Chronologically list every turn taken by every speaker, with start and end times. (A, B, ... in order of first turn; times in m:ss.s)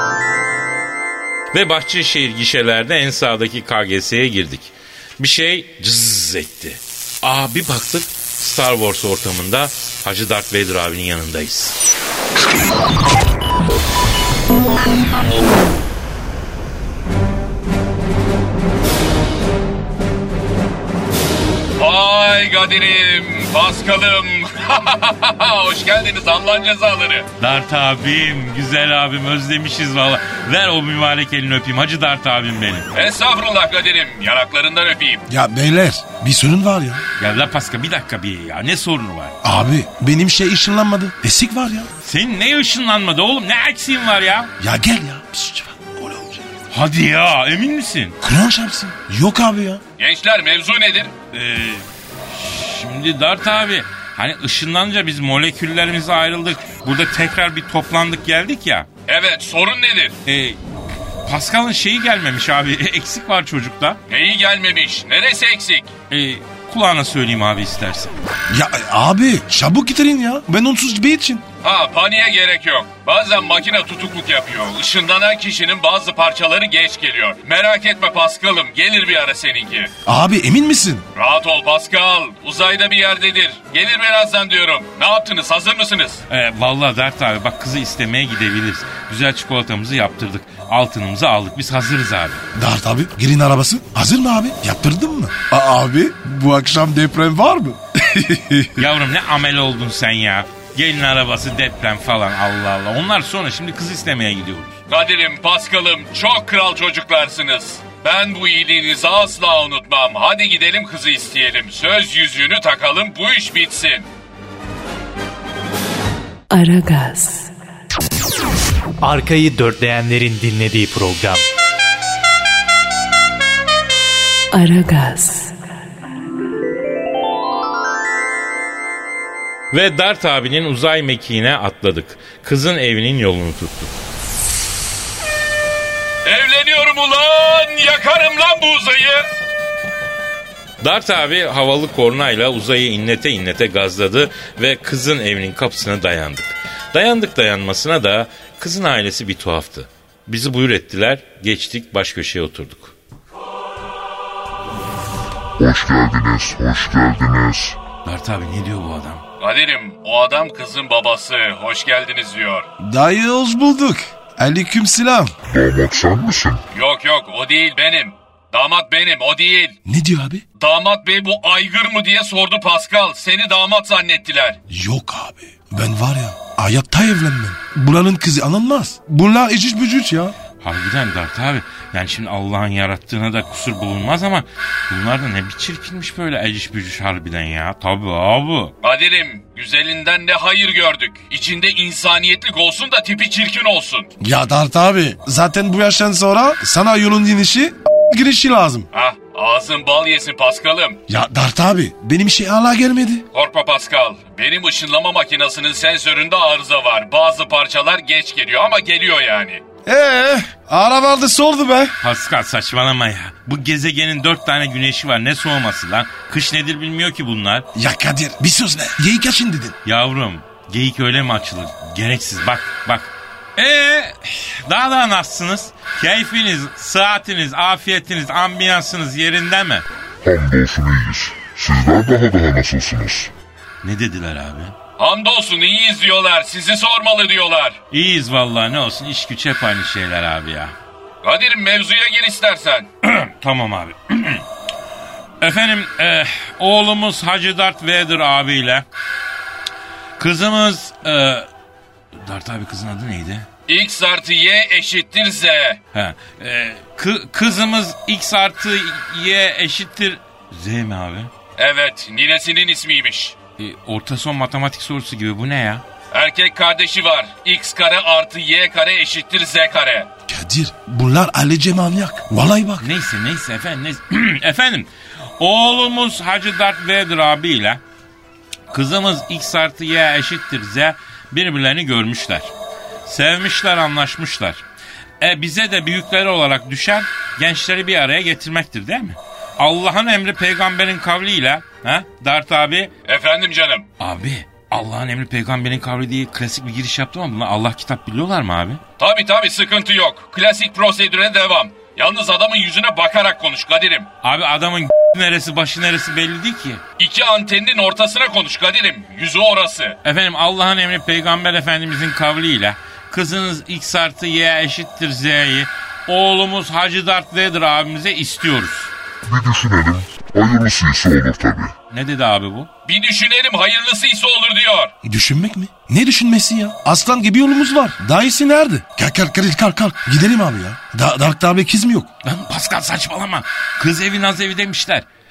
0:01.5-0:11.8 A
0:21.8-0:27.3 B
0:27.4-0:32.9 A
0:32.9-0:35.2 B
0:35.3-0:37.0 C
0:37.2-0:39.3 A
0:39.4-0:41.9 C
0:42.0-0:44.5 A
0:44.6-0:46.4 C
0:46.7-0:48.2 A
0:48.2-0:49.8 C
0:50.0-0:51.1 B
0:51.3-0:58.9 A
0:59.1-1:00.2 B
1:00.2-1:00.6 A
1:01.2-1:04.0 A
1:04.1-1:05.9 B
1:06.1-1:08.1 A
1:08.5-1:11.4 C
1:11.6-1:19.9 B
1:20.0-1:21.0 C
1:21.2-1:26.2 B
1:26.3-1:32.4 A
1:32.5-1:38.8 C
1:38.8-1:44.8 A
1:44.9-1:54.1 B
1:56.5-1:57.5 D
1:59.0-2:01.4 E
2:04.5-2:05.5 D
2:09.7-2:13.9 A
2:16.2-2:19.3 B
2:20.8-2:32.9 A
2:35.6-2:37.8 F
2:38.0-2:39.2 A
2:39.4-2:42.7 B
2:42.8-2:45.3 C
2:45.5-2:46.6 F
2:46.7-2:49.8 B
2:49.8-2:50.4 C
2:50.6-2:54.6 B
2:54.7-3:00.4 C
3:00.6-3:08.7 A
3:08.8-3:14.1 B
3:14.2-3:18.9 C
3:18.9-3:21.0 B
3:21.1-3:23.2 C
3:23.3-3:29.6 B
3:29.8-3:31.9 C
3:32.0-3:37.7 A
3:37.7-3:39.8 C
3:39.8-3:49.8 A
3:50.2-3:53.3 F
3:53.8-3:54.7 A
3:55.0-3:57.8 B
3:57.9-4:00.7 A
4:01.2-4:02.9 B
4:03.0-4:04.4 A
4:05.4-4:08.8 A
4:10.2-4:11.5 A
4:12.2-4:13.5 A
4:13.7-4:15.8 B
4:15.9-4:21.3 A
4:21.6-4:23.3 B
4:23.6-4:25.8 A
4:26.1-4:30.1 B
4:30.3-4:32.9 C
4:32.8-4:34.9 A
4:35.4-4:37.8 A
4:38.7-4:42.5 A
4:43.0-4:44.6 A
4:45.2-4:52.9 A
4:53.1-4:53.9 B
4:54.0-4:58.8 A
4:59.0-5:04.1 B
5:04.2-5:06.8 A
5:07.0-5:10.0 B
5:10.0-5:18.9 A
5:19.2-5:21.7 F
5:21.9-5:22.7 A
5:22.8-5:24.9 B
5:25.0-5:32.1 C
5:32.2-5:35.0 A